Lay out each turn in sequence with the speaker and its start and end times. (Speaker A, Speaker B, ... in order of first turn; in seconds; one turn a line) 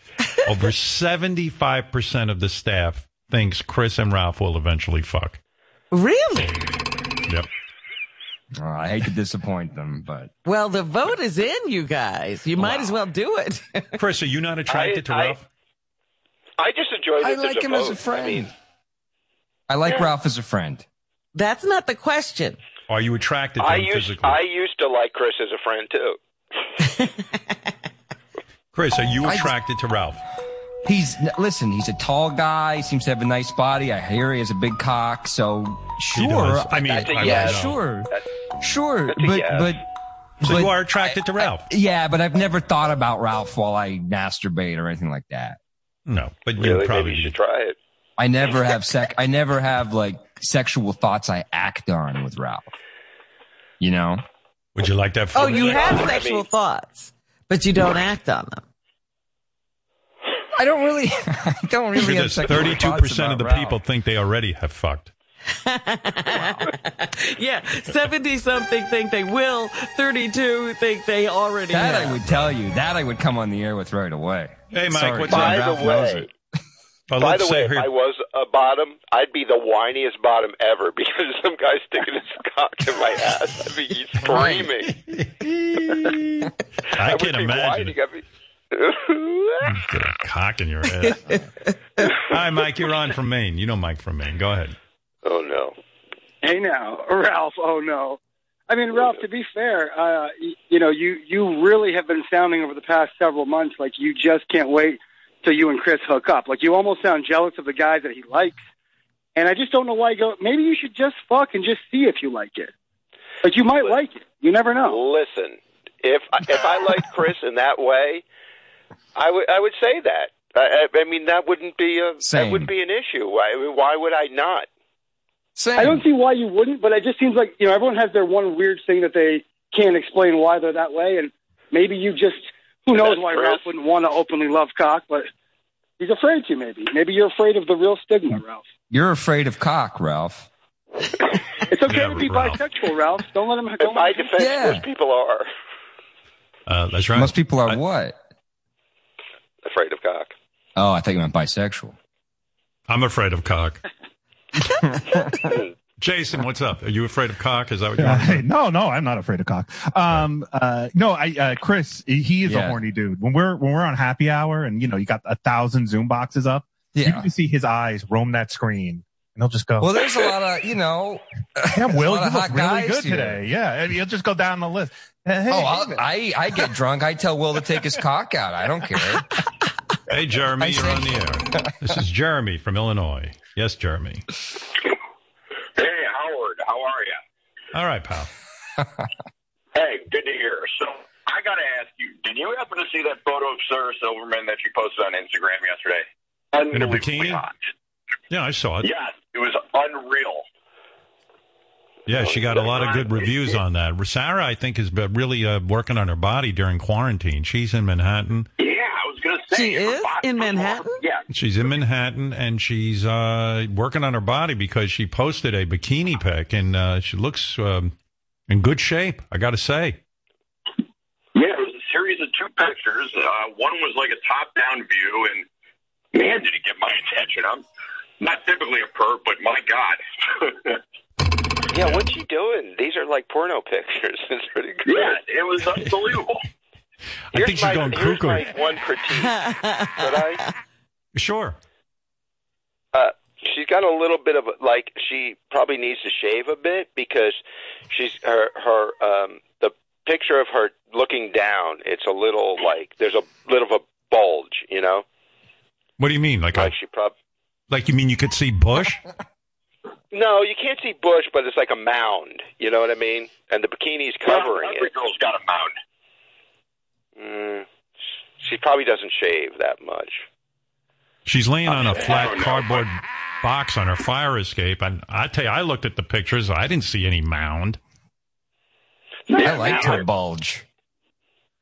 Speaker A: 0.4-5.4
Speaker B: 5.9-6.6
Speaker C: 8.6-10.3
Speaker B: 10.4-14.0
Speaker A: 12.6-12.9
Speaker A: 14.0-15.5
Speaker D: 14.7-15.4
Speaker D: 16.6-18.5
Speaker C: 17.2-18.5
Speaker C: 19.7-20.8
Speaker B: 21.3-22.6
Speaker A: 22.9-24.4
Speaker D: 23.6-26.2
Speaker A: 28.7-30.2
Speaker C: 29.2-29.5
Speaker C: 30.8-39.8
Speaker A: 36.1-37.8
Speaker D: 36.7-38.2
Speaker D: 39.1-39.7
Speaker C: 40.4-45.6
Speaker A: 40.4-41.7
Speaker A: 46.1-47.4
Speaker D: 46.6-47.8
Speaker C: 48.2-52.7
Speaker C: 53.8-54.2
Speaker A: 54.8-56.1
Speaker B: 55.4-58.6
Speaker D: 55.5-56.5
Speaker C: 60.6-63.8
Speaker A: 62.0-65.1
Speaker B: 65.5-72.2
Speaker C: 66.3-66.7
Speaker C: 71.7-76.3
Speaker A: 74.7-75.8
Speaker D: 75.3-76.3
Speaker A: 77.1-77.9
Speaker D: 77.2-85.0
Speaker B: 84.3-84.7
Speaker A: 85.0-88.0
Speaker D: 87.0-89.8
Speaker A: 89.7-91.4
Speaker B: 91.0-91.4
Speaker D: 92.0-92.3
Speaker A: 92.2-94.8
Speaker D: 95.2-95.8
Speaker E: 96.4-108.6
Speaker E: 109.4-112.7
Speaker E: 113.4-115.0
Speaker D: 114.8-118.2
Speaker D: 119.2-124.7
Speaker C: 122.2-122.7
Speaker C: 125.6-126.0
Speaker E: 125.8-135.3
Speaker D: 132.9-133.7
Speaker E: 136.0-138.7
Speaker C: 138.9-140.5
Speaker E: 141.7-144.3
Speaker A: 141.9-142.6
Speaker D: 143.8-145.5
Speaker C: 144.4-144.8
Speaker A: 146.7-147.8
Speaker C: 147.2-148.2
Speaker D: 149.6-150.3
Speaker C: 150.8-152.0
Speaker A: 152.9-153.8
Speaker C: 154.6-155.6
Speaker A: 156.0-158.5
Speaker F: 158.0-170.2
Speaker C: 162.4-162.8
Speaker C: 166.9-167.3
Speaker C: 169.8-173.4
Speaker F: 171.7-176.1
Speaker C: 175.5-179.3
Speaker A: 180.1-184.2
Speaker C: 180.6-181.8
Speaker G: 185.8-187.2
Speaker A: 187.7-188.3
Speaker G: 189.7-197.6
Speaker A: 196.7-197.4
Speaker A: 198.3-198.9
Speaker G: 198.8-200.4
Speaker A: 202.1-208.5
Speaker D: 202.2-202.6
Speaker G: 202.8-203.1
Speaker G: 208.6-211.3
Speaker B: 209.5-211.0
Speaker A: 211.3-217.9
Speaker A: 218.5-220.0
Speaker G: 221.3-225.5
Speaker G: 226.1-227.6
Speaker G: 228.2-230.8
Speaker D: 231.7-235.2
Speaker G: 234.9-236.5
Speaker A: 237.3-238.5
Speaker D: 237.3-240.4
Speaker B: 239.3-239.9
Speaker A: 241.2-241.6
Speaker D: 242.9-247.4
Speaker D: 247.9-255.1
Speaker A: 256.0-256.7
Speaker D: 256.6-257.1
Speaker A: 257.7-259.0
Speaker D: 260.1-264.9
Speaker G: 264.3-265.7
Speaker D: 267.2-267.7
Speaker D: 268.4-270.2
Speaker A: 271.2-277.8
Speaker G: 271.7-272.9
Speaker D: 279.3-279.9
Speaker G: 279.3-280.1
Speaker C: 279.4-280.6